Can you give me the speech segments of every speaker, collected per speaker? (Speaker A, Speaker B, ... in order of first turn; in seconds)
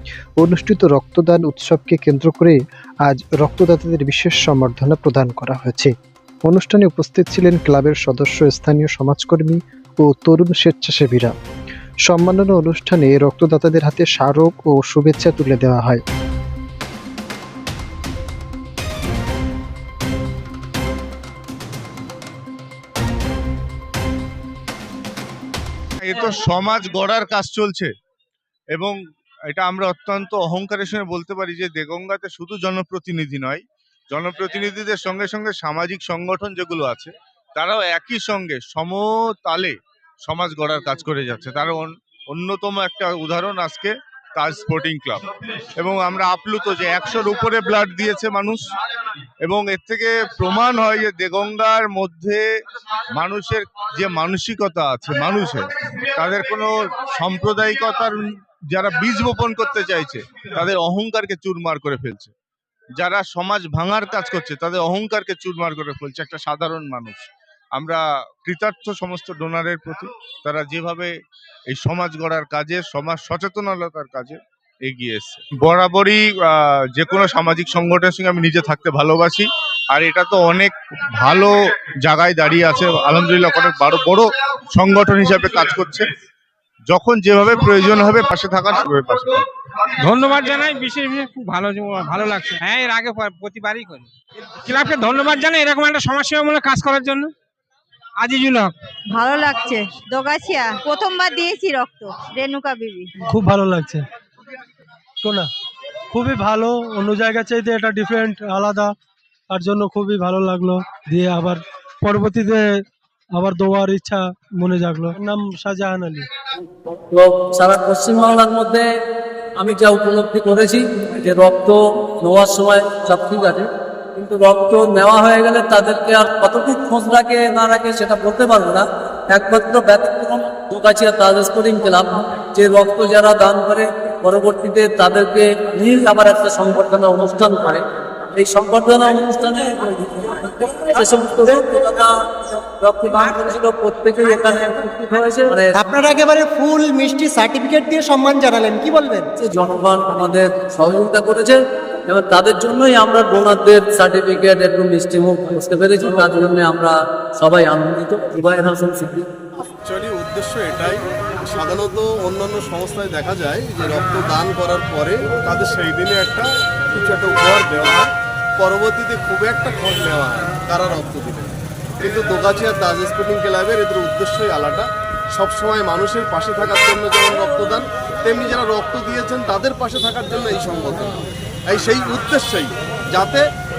Speaker A: 0.4-5.9, 6.5-11.3, 12.1-16.0
Speaker B: 26.0-27.9, 29.5-52.5, 53.1-62.3, 63.0-71.1, 71.7-86.1, 86.9-89.4
Speaker C: 90.0-94.1, 94.6-97.3, 98.2-98.7
Speaker D: 99.1-103.1
Speaker E: 103.2-104.0, 105.2-105.5, 106.1-108.9, 109.5-112.7, 113.3-116.3
Speaker F: 116.9-118.9, 119.6-145.8, 149.4-159.3
Speaker G: 145.8-149.3
Speaker H: 159.8-183.4